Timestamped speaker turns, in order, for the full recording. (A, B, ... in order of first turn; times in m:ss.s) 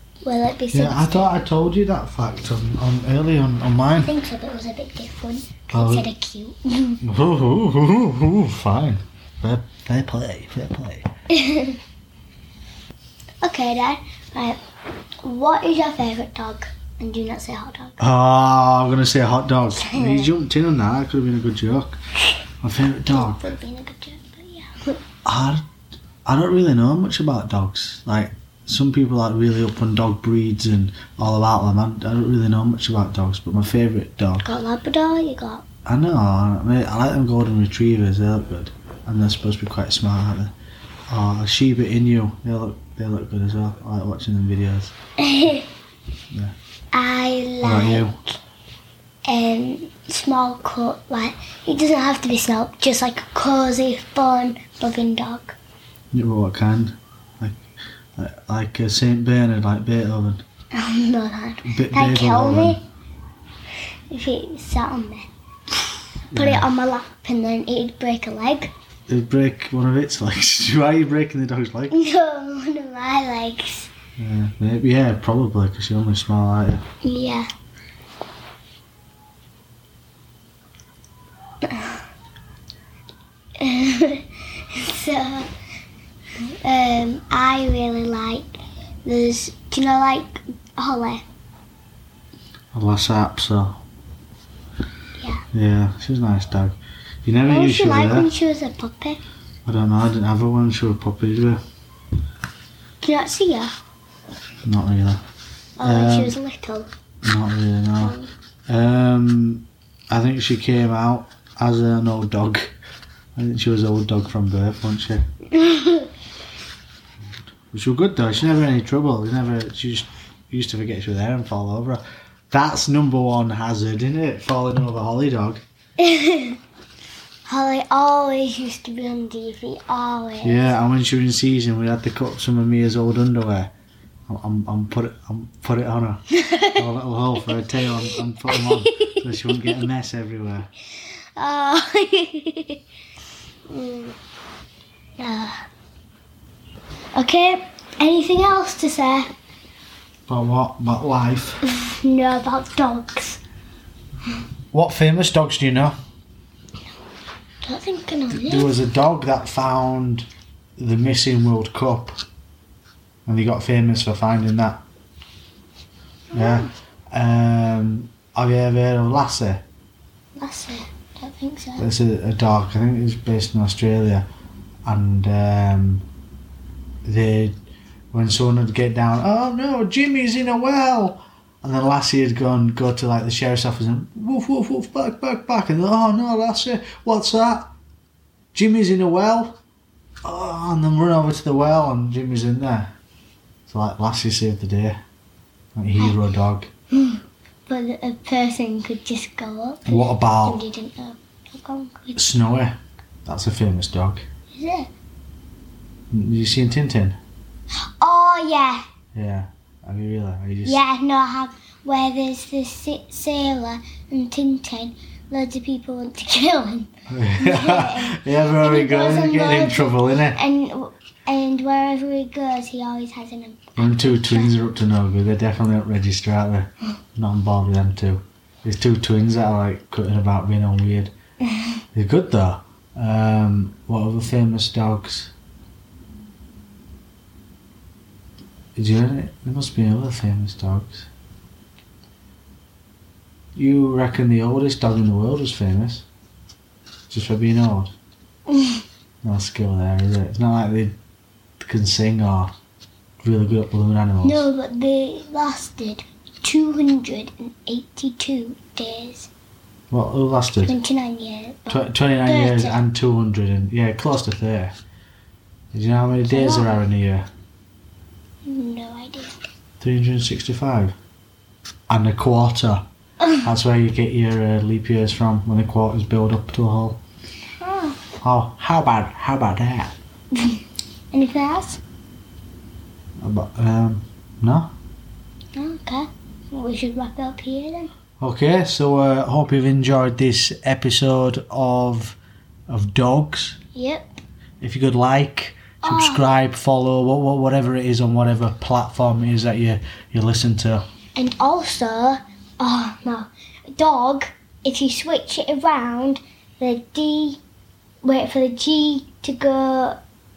0:00.2-0:01.3 A
0:00.7-0:04.1 B
0:04.0-0:07.0 A
0:05.7-0:06.1 B
0:07.0-0:11.1 B
0:11.3-0:11.8 A
0:13.4-0:14.6 A
0:15.2-0:18.0 A
0:18.0-0:22.0 B
0:19.7-0:20.3 A
0:22.6-0:23.4 B
0:23.1-0:25.0 A
0:25.2-0:25.7 B
0:26.2-0:34.5 B
0:34.4-0:35.6 A
0:35.9-0:40.5 B
0:41.1-0:44.9 B
0:45.2-0:45.7 A
0:46.9-0:48.3 A
0:47.6-0:48.2 B
0:49.3-0:55.6 A
0:56.1-0:57.6 B
0:58.2-1:00.4 B
1:00.7-1:02.8 A
1:01.6-1:02.8 B
1:04.1-1:05.3 A
1:06.3-1:06.7 B
1:06.3-1:08.7 A
1:09.1-1:12.0 B
1:11.9-1:13.9 A
1:14.2-1:16.8 B
1:17.0-1:17.5 A
1:21.6-1:22.0 A
1:23.6-1:25.5 A
1:26.4-1:31.2 A
1:32.7-1:33.8 B
1:35.2-1:35.4 A
1:35.5-1:38.3 B
1:37.5-1:39.2 A
1:39.6-1:41.6 B
1:43.0-1:43.7 A
1:44.6-1:45.2 B
1:45.8-1:46.9 A
1:45.8-1:46.4 B
1:47.2-1:48.2 B
1:48.0-1:48.3 A
1:48.7-1:52.8 B
1:53.4-1:55.3 B
1:55.5-1:56.1 A
1:57.3-2:05.6 B
2:06.0-2:06.6 A
2:07.5-2:10.8 A
2:10.4-2:13.7 B
2:14.3-2:20.7 B
2:16.3-2:16.8 A
2:18.5-2:19.8 A
2:21.4-2:22.8 A
2:23.7-2:24.2 A
2:25.2-2:25.6 A
2:27.1-2:29.3 A
2:30.3-2:31.6 B
2:31.6-2:33.4 A
2:34.7-2:36.0 B
2:37.6-2:38.8 A
2:38.3-2:42.2 B
2:43.3-2:44.8 B
2:46.3-2:46.7 A
2:46.3-2:49.6 B
2:50.4-2:51.9 A
2:51.8-2:54.3 B
2:54.8-2:56.0 B
2:57.0-2:57.6 B
2:58.1-3:07.7 B
3:08.5-3:09.6 B
3:10.2-3:12.9 B
3:13.7-3:15.0 B
3:15.8-3:16.7 B
3:16.9-3:22.3 A
3:19.9-3:20.6 B
3:22.2-3:24.2 B
3:24.5-3:24.9 A
3:26.1-3:27.2 B
3:28.0-3:28.8 A
3:29.1-3:30.8 B
3:30.6-3:44.6 A
3:37.1-3:40.4 B
3:43.8-3:51.1 B
3:51.9-3:55.3 B
3:58.8-4:01.1 B
4:03.6-4:06.0 B
4:07.1-4:07.9 B
4:08.5-4:08.8 A
4:09.2-4:11.0 B
4:11.6-4:12.5 B
4:13.2-4:14.5 B
4:14.2-4:19.3 A
4:19.9-4:20.7 B
4:20.6-4:22.8 A
4:21.7-4:24.8 B
4:25.7-4:27.3 B
4:26.3-4:26.8 A
4:28.4-4:29.4 A
4:29.8-4:31.0 B
4:31.9-4:32.8 B
4:33.4-4:37.0 B
4:37.6-4:38.0 A
4:38.2-4:40.0 B
4:41.1-4:41.8 A
4:43.2-4:44.7 B
4:45.5-4:47.9 A
4:48.2-4:53.6 B
4:53.8-4:54.2 A
4:54.6-5:00.8 B
4:55.8-4:56.2 A
5:01.2-5:07.4 A
5:08.0-5:10.0 A